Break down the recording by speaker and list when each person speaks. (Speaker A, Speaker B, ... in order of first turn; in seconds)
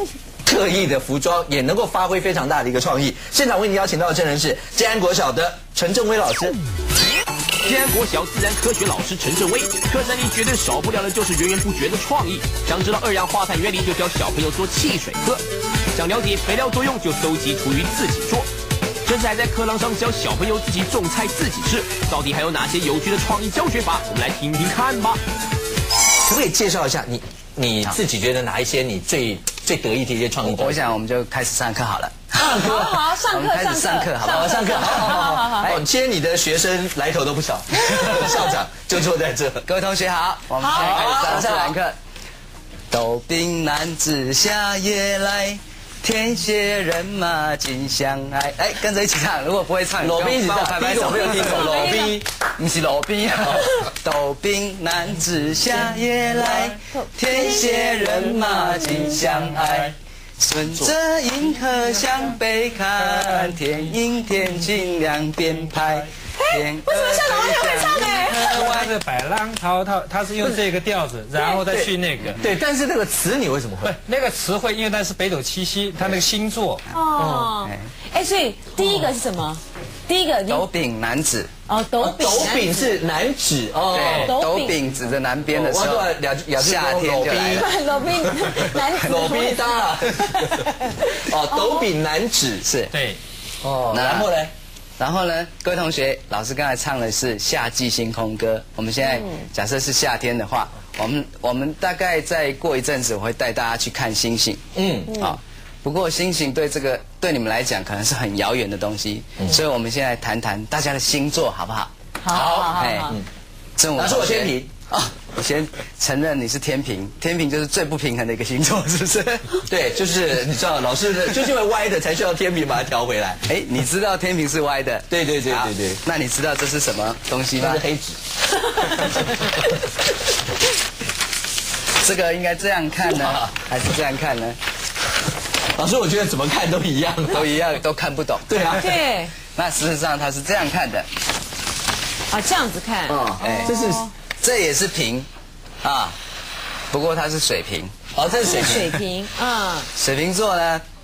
Speaker A: 0.4-6.6, 26.2-30.9, 32.5-32.9, 34.2-39.6, 40.7-41.7, 50.0-52.2, 71.7-74.0, 77.1-77.5, 82.0-84.3, 85.5-87.7, 88.4-92.7, 93.6-94.5, 104.7-105.2, 112.3-113.2, 113.9-114.7, 119.7-123.4, 125.1-126.0, 127.6-128.2, 128.8-129.7, 133.1-133.5, 135.7-137.5, 138.5-139.0, 143.1-144.1, 148.1-148.9
Speaker B: 7.6-15.4, 15.9-18.5, 19.1-25.2
Speaker C: 30.4-35.8, 39.6-41.9, 42.9-51.7, 52.5-68.9, 80.5-81.5, 83.9-87.7, 92.6-92.9, 93.9-94.3, 95.0-111.9, 112.7-113.2, 113.8-119.6, 123.5-127.8, 132.0-134.6, 137.3-138.8, 139.5-141.1, 143.4-143.8, 144.4-145.3, 145.8-146.2, 146.9-149.0, 149.9-150.8
Speaker D: 32.3-35.8, 40.6-41.2, 51.2-52.2, 56.6-59.2, 66.4-68.5, 76.9-80.6, 81.7-83.0, 84.2-84.8, 87.5-91.8, 99.0-99.4, 105.1-105.4, 112.2-113.2, 128.8-129.2, 138.8-139.3, 142.3-144.1, 148.4-149.9
Speaker E: 68.3-72.4, 73.8-76.8, 92.9-93.2